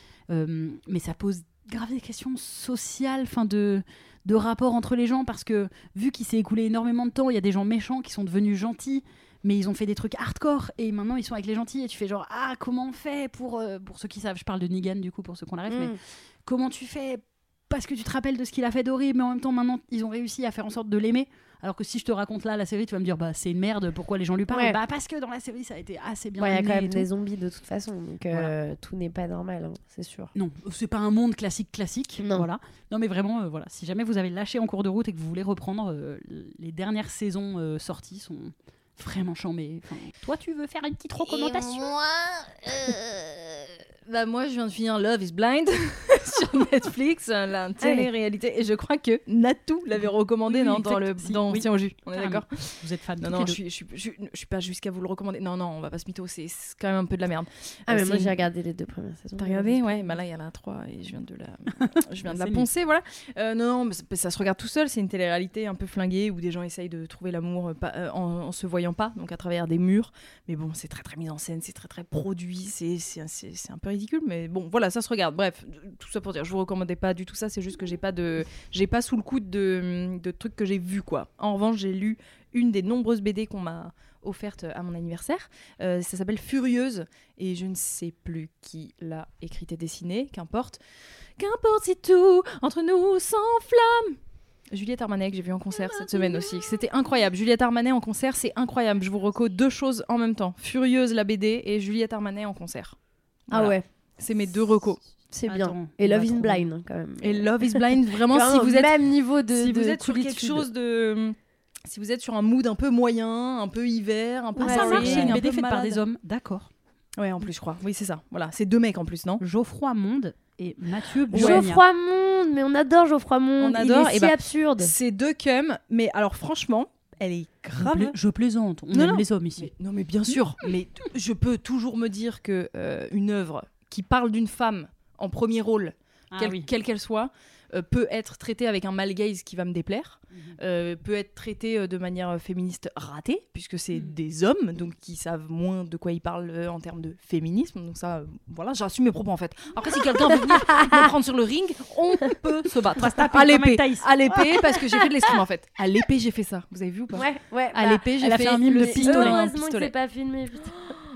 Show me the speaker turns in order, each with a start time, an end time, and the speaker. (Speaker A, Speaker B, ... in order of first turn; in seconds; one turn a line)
Speaker A: 0.3-27.1
Speaker B: 15.7-16.0
Speaker B: 24.5-24.8
Speaker B: 26.4-30.3
Speaker A: 30.3-41.9
Speaker B: 32.2-32.5
Speaker C: 44.0-58.4
Speaker B: 47.8-48.1
Speaker A: 50.5-53.6
Speaker B: 57.9-60.2
Speaker C: 59.4-90.8
Speaker A: 61.8-62.7
Speaker C: 91.4-94.2
Speaker C: 94.7-103.0
Speaker B: 95.9-96.4
Speaker C: 103.5-105.0
Speaker A: 103.5-103.8
Speaker B: 103.5-103.8
Speaker B: 105.3-110.7
Speaker A: 105.5-106.7
Speaker C: 107.2-109.0
Speaker C: 109.5-111.3
Speaker C: 111.9-116.0
Speaker B: 114.6-115.4
Speaker A: 114.6-116.7
Speaker C: 117.2-119.4
Speaker A: 119.4-121.8
Speaker C: 121.3-121.7
Speaker B: 121.3-124.9
Speaker C: 123.6-128.1
Speaker A: 127.8-129.7
Speaker C: 128.9-159.9
Speaker A: 130.3-130.7
Speaker A: 136.3-136.7
Speaker B: 150.3-151.0
Speaker A: 152.9-154.1
Speaker B: 154.3-155.1
Speaker B: 157.1-158.1
Speaker A: 158.2-159.4
Speaker B: 158.6-161.0